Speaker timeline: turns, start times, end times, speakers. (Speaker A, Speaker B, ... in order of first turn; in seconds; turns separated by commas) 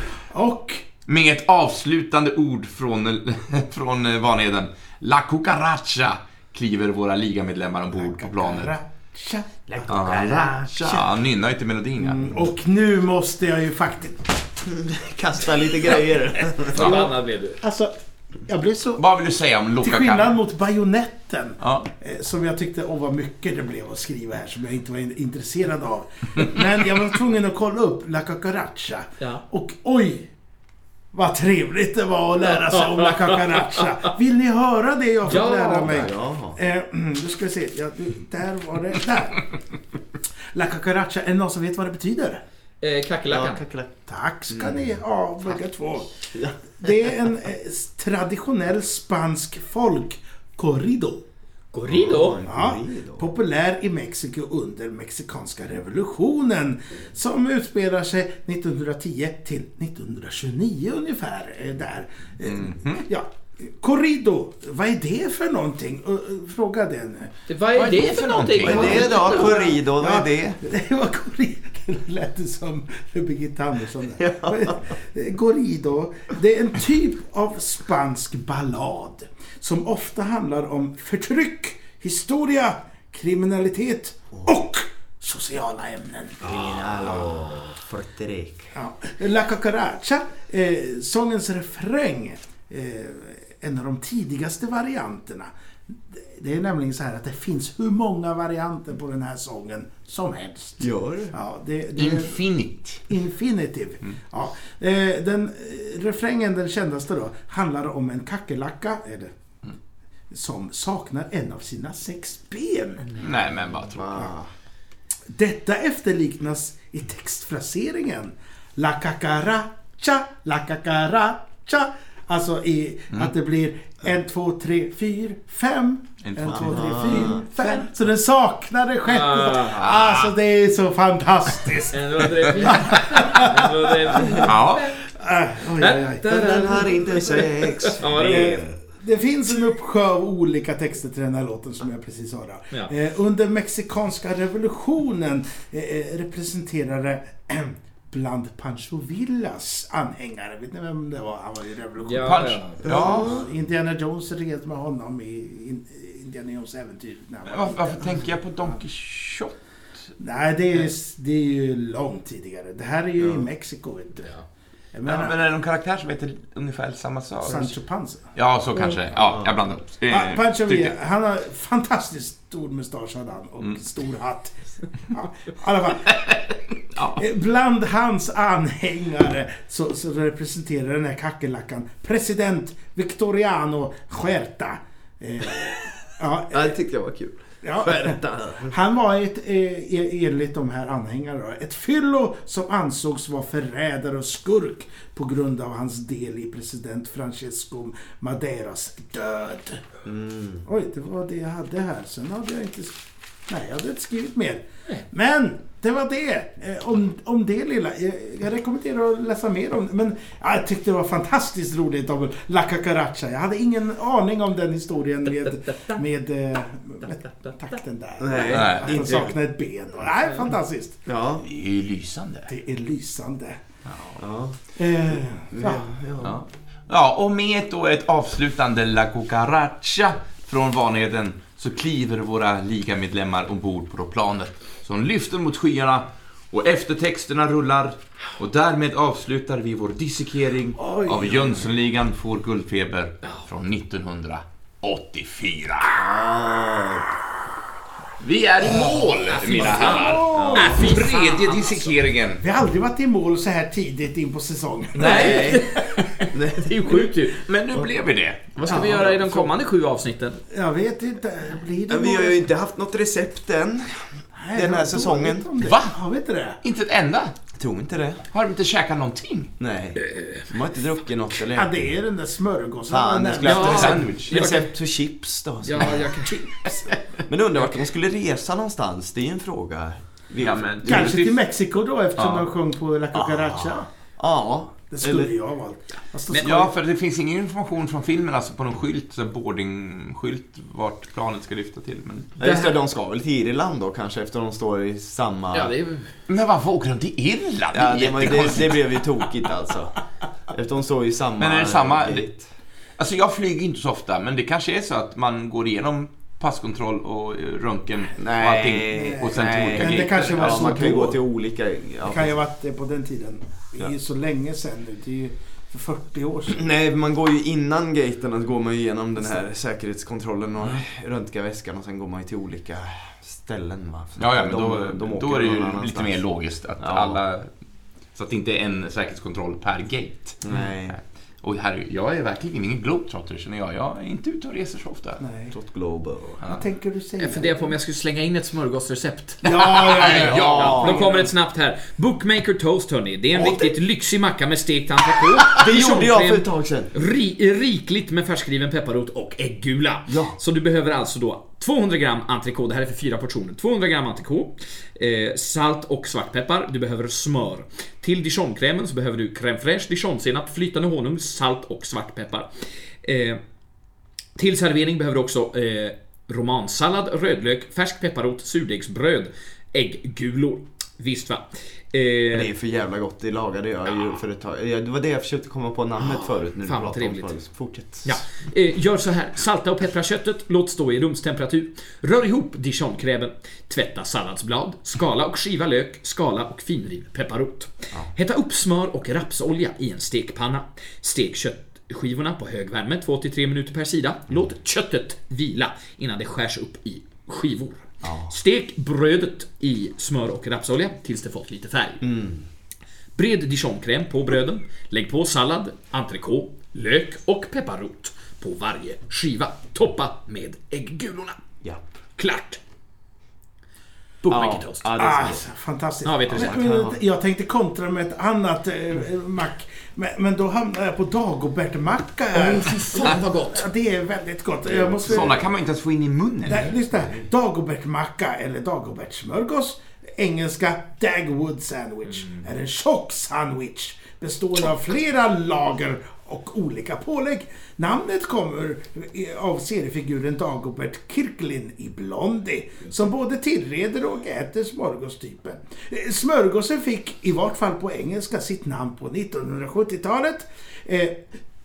Speaker A: 0.3-0.8, Speaker B: 1.1-8.7, Speaker A: 8.0-11.1, Speaker C: 9.7-10.5, Speaker B: 9.9-12.4, Speaker A: 12.0-14.4, Speaker C: 14.6-16.9, Speaker A: 16.6-19.0, Speaker D: 16.7-17.6, Speaker B: 16.8-17.0, Speaker B: 19.0-20.3, Speaker A: 19.8-30.3, Speaker B: 21.6-21.9, Speaker A: 31.1-39.6, Speaker D: 32.7-33.9, Speaker D: 35.2-36.0, Speaker C: 35.8-36.6, Speaker A: 40.5-42.4, Speaker D: 42.8-43.6, Speaker C: 43.3-43.9, Speaker A: 44.1-46.1, Speaker C: 44.5-45.0, Speaker C: 46.3-46.9, Speaker A: 46.8-51.3, Speaker D: 51.7-52.4, Speaker C: 51.9-53.3, Speaker A: 52.5-67.3, Speaker B: 62.5-63.1, Speaker D: 67.5-69.8, Speaker B: 67.8-69.5, Speaker C: 68.6-70.6, Speaker A: 68.9-87.3, Speaker C: 74.2-74.9, Speaker C: 86.4-88.7, Speaker A: 88.7-102.4, Speaker C: 100.8-101.3, Speaker B: 102.0-103.1, Speaker A: 103.1-109.3, Speaker A: 110.3-113.2, Speaker B: 113.2-114.3, Speaker C: 113.9-114.5, Speaker A: 115.3-136.3, Speaker B: 126.2-127.5, Speaker C: 126.5-127.5, Speaker D: 129.1-129.9, Speaker B: 129.8-130.3, Speaker D: 131.9-135.1, Speaker B: 134.4-134.9, Speaker D: 135.8-138.6, Speaker C: 136.3-138.8, Speaker A: 138.2-158.8, Speaker D: 152.0-152.9, Speaker B: 152.2-153.4, Speaker C: 152.8-153.5, Speaker B: 157.5-159.6, Speaker A: 160.2-164.3, Speaker C: 163.2-163.5, Speaker A: 164.9-165.3, Speaker B: 165.1-167.7, Speaker A: 167.4-168.2, Speaker B: 168.3-170.9, Speaker C: 169.2-169.6, Speaker A: 170.1-176.4, Speaker B: 176.9-177.2, Speaker A: 177.0-186.8, Speaker C: 186.5-188.8, Speaker A: 187.6-199.9, Speaker C: 200.1-200.7, Speaker A: 200.7-221.0, Speaker D: 215.7-216.0, Speaker D: 217.0-217.6, Speaker C: 218.2-219.3, Speaker B: 218.5-219.3, Speaker C: 221.1-221.5, Speaker B: 221.4-222.5, Speaker A: 222.5-223.6, Speaker C: 224.2-224.6, Speaker A: 224.8-225.9, Speaker C: 225.5-226.4, Speaker B: 226.2-246.1, Speaker A: 240.8-241.7, Speaker C: 245.9-247.1, Speaker B: 248.2-252.4, Speaker D: 248.6-252.0, Speaker A: 249.5-250.9, Speaker C: 250.3-250.9, Speaker A: 252.4-256.3, Speaker D: 254.9-257.4, Speaker C: 255.0-255.8, Speaker C: 256.3-257.1, Speaker B: 257.4-258.8, Speaker D: 258.6-260.4, Speaker C: 258.6-259.5, Speaker A: 258.7-259.1, Speaker A: 260.5-262.5, Speaker C: 261.9-265.5, Speaker A: 264.4-266.6, Speaker B: 265.6-266.0, Speaker B: 266.6-267.3, Speaker C: 267.6-268.2, Speaker B: 268.3-269.5, Speaker C: 269.6-271.9, Speaker A: 271.5-274.0, Speaker C: 272.9-276.1, Speaker D: 273.4-274.7, Speaker B: 273.5-274.3, Speaker D: 275.6-276.7, Speaker A: 276.3-276.9, Speaker C: 277.3-281.2, Speaker B: 280.4-281.4, Speaker A: 280.8-283.9, Speaker B: 282.2-282.4, Speaker C: 283.1-285.3, Speaker A: 284.9-286.7, Speaker B: 286.3-292.4, Speaker C: 292.4-295.7, Speaker D: 292.4-292.8, Speaker D: 295.5-296.1, Speaker B: 296.3-299.0, Speaker C: 297.7-302.4, Speaker B: 301.4-302.3, Speaker B: 303.0-310.8, Speaker C: 308.2-312.4, Speaker A: 308.9-311.2, Speaker A: 312.0-316.6, Speaker C: 316.5-326.2, Speaker B: 324.2-327.5, Speaker C: 326.8-327.2, Speaker B: 328.1-335.2, Speaker C: 330.4-331.0, Speaker A: 335.2-335.6, Speaker C: 335.5-336.4, Speaker A: 336.4-337.7, Speaker D: 337.2-339.5, Speaker A: 339.4-341.3, Speaker B: 339.4-341.1, Speaker D: 340.1-363.4, Speaker C: 340.2-341.1, Speaker C: 343.3-343.7, Speaker C: 345.6-346.9, Speaker C: 350.1-350.4, Speaker D: 364.4-372.5, Speaker C: 372.3-378.2, Speaker D: 376.0-377.3, Speaker D: 378.0-402.1, Speaker C: 398.0-398.3, Speaker C: 402.0-402.4, Speaker D: 403.2-411.4, Speaker D: 412.2-412.6, Speaker D: 414.2-415.0, Speaker C: 414.3-415.5, Speaker A: 414.9-425.4, Speaker D: 416.0-416.6, Speaker C: 416.3-417.0, Speaker D: 422.3-423.7, Speaker C: 424.7-425.3, Speaker B: 425.0-426.7, Speaker A: 426.5-451.3